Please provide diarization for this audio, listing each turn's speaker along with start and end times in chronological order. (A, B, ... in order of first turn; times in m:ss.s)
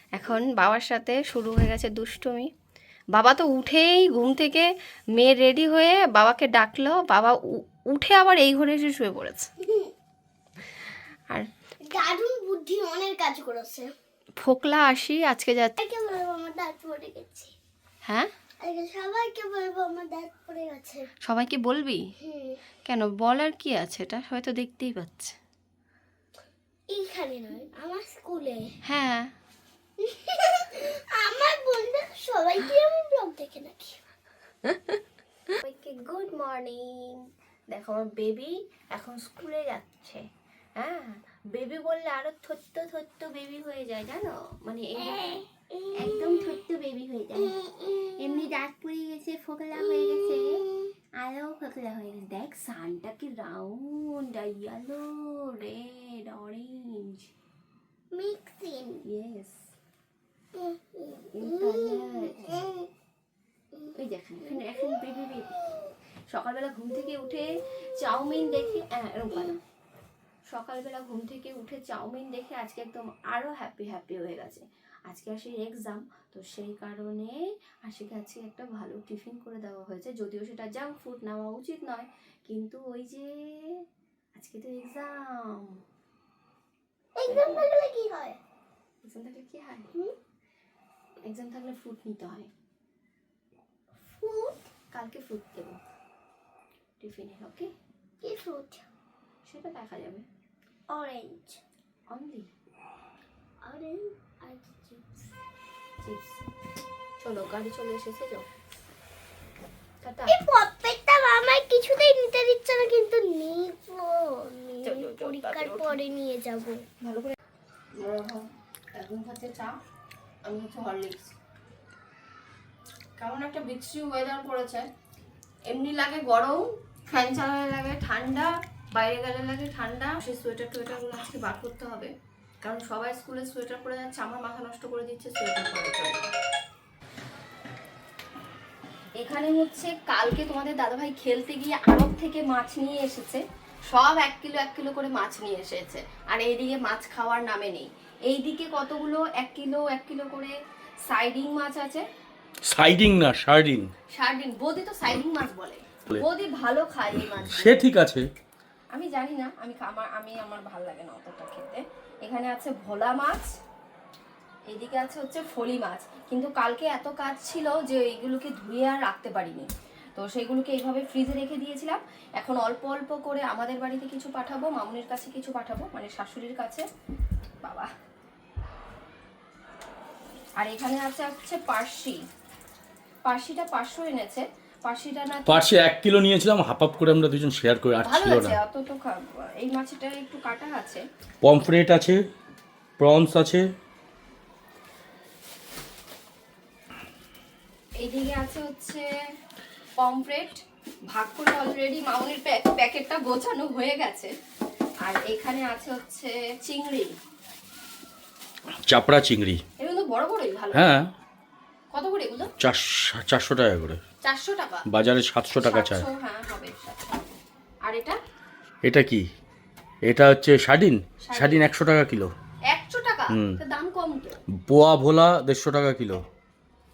0:00.2-0:02.5 A
0:03.1-0:09.5 A
0:09.6-0:09.9 B
0:11.9-0:13.9 B
0:14.4-0:15.8 A
0:15.8-0:17.5 B
0:18.6-0:21.1 B
0:21.2-0:22.0 A
0:22.2-0:22.6 B
0:22.8-0:25.4 A
0:26.9-0:28.7 B
0:28.8-0:29.3 A
0:30.0-0:34.0 B
0:34.7-0:35.0 A
0:35.5-0:37.2 A
0:37.7-0:40.2 A
0:40.8-0:47.6 A
0:45.1-0:46.5 B
0:47.4-0:48.5 B
0:48.2-0:50.6 A
0:49.8-0:50.9 B
0:51.2-0:57.3 A
0:58.1-0:59.0 B
0:59.1-0:59.6 A
1:00.6-1:02.9 B
1:01.3-1:02.7 A
1:03.9-1:05.6 A
1:06.3-1:09.6 A
1:10.5-1:23.8 A
1:24.4-1:25.8 A
1:27.2-1:28.4 B
1:27.3-1:27.7 A
1:29.0-1:29.9 A
1:31.3-1:32.5 A
1:34.1-1:34.6 B
1:34.9-1:35.8 A
1:37.0-1:37.7 A
1:38.2-1:38.9 B
1:39.5-1:40.3 A
1:40.9-1:41.6 B
1:42.1-1:42.5 A
1:43.6-1:45.3 B
1:46.0-1:46.4 A
1:47.2-1:48.5 A
1:50.0-1:50.4 A
1:50.3-1:56.8 B
1:54.8-1:56.0 A
1:57.0-1:57.3 A
1:57.9-1:59.8 A
2:00.4-2:01.4 A
2:03.2-2:04.8 A
2:05.7-2:12.1 A
2:12.6-2:16.3 A
2:19.2-2:30.5 A
2:31.1-2:32.0 A
2:32.7-2:33.9 C
2:34.1-2:37.8 A
2:37.6-2:38.3 C
2:38.9-2:43.5 A
2:44.7-2:56.8 A
2:57.6-2:57.9 A
3:00.6-3:02.2 A
3:03.2-3:05.7 A
3:05.5-3:08.6 C
3:08.0-3:11.0 A
3:11.4-3:12.2 C
3:13.0-3:13.6 C
3:18.0-3:19.1 A
3:20.0-3:24.3 A
3:25.0-3:27.1 A
3:28.9-3:29.6 C
3:29.8-3:31.0 A
3:30.7-3:31.0 C
3:31.9-3:32.5 A
3:32.6-3:34.0 C
3:34.2-3:34.9 A
3:34.9-3:36.1 C
3:35.5-3:37.1 A
3:37.8-3:38.2 A
3:38.8-3:39.2 C
3:40.1-3:42.3 C
3:41.2-3:41.7 A
3:42.7-3:44.4 A
3:44.7-3:46.2 C